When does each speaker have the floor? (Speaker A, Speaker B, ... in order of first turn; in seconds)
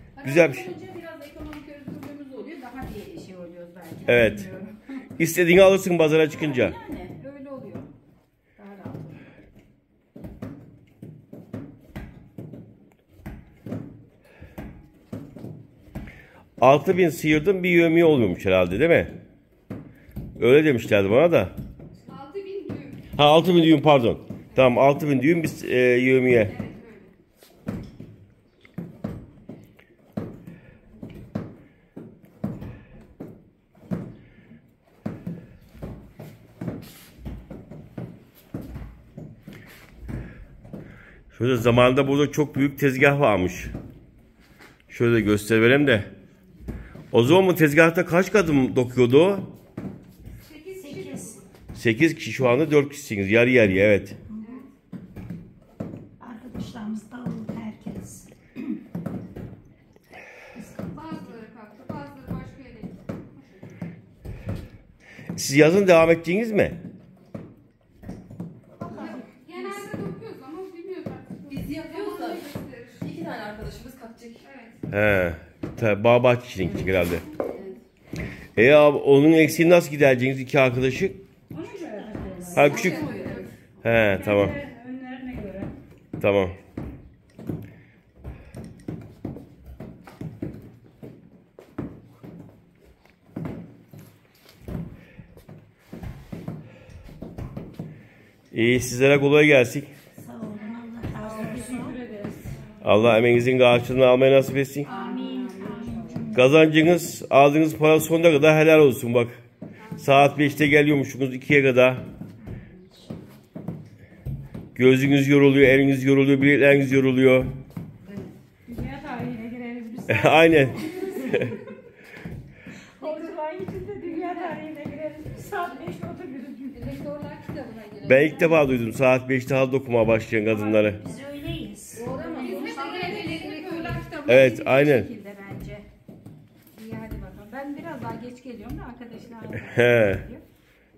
Speaker A: 0.2-5.0, 6.4-7.9, 8.6-9.2, 81.5-82.4, 84.2-85.2, 101.2-102.4, 104.8-106.3, 118.7-120.4, 123.0-127.1, 128.0-128.6, 133.5-135.9, 136.7-140.4
Speaker B: 0.2-0.7, 4.1-4.5, 5.2-6.8, 16.6-19.1, 20.4-21.5, 23.2-26.5, 41.3-43.7, 44.9-46.1, 47.1-49.5, 51.7-54.2, 65.3-66.8, 74.9-77.2, 78.6-81.2, 82.5-83.1, 83.8-84.5, 86.2-86.6, 98.5-99.9, 102.8-104.9, 106.3-109.4, 110.0-112.1, 114.8-117.5, 120.1-121.6, 128.0-131.0, 134.3-135.1, 139.6-140.2
Speaker C: 22.1-23.1, 26.4-27.1, 50.4-51.5, 54.4-54.7, 60.8-63.7, 68.8-73.1, 74.4-74.8, 82.5-83.5, 120.7-121.6, 124.1-124.6, 126.7-128.0, 132.3-134.2
Speaker D: 50.8-51.4, 54.3-54.6, 56.2-58.3, 68.8-69.2, 81.9-82.7, 100.2-102.0, 104.9-106.6, 112.9-113.2, 130.8-132.1
Speaker E: 71.5-72.5, 73.0-74.5, 77.4-77.8, 82.4-83.5, 131.9-134.0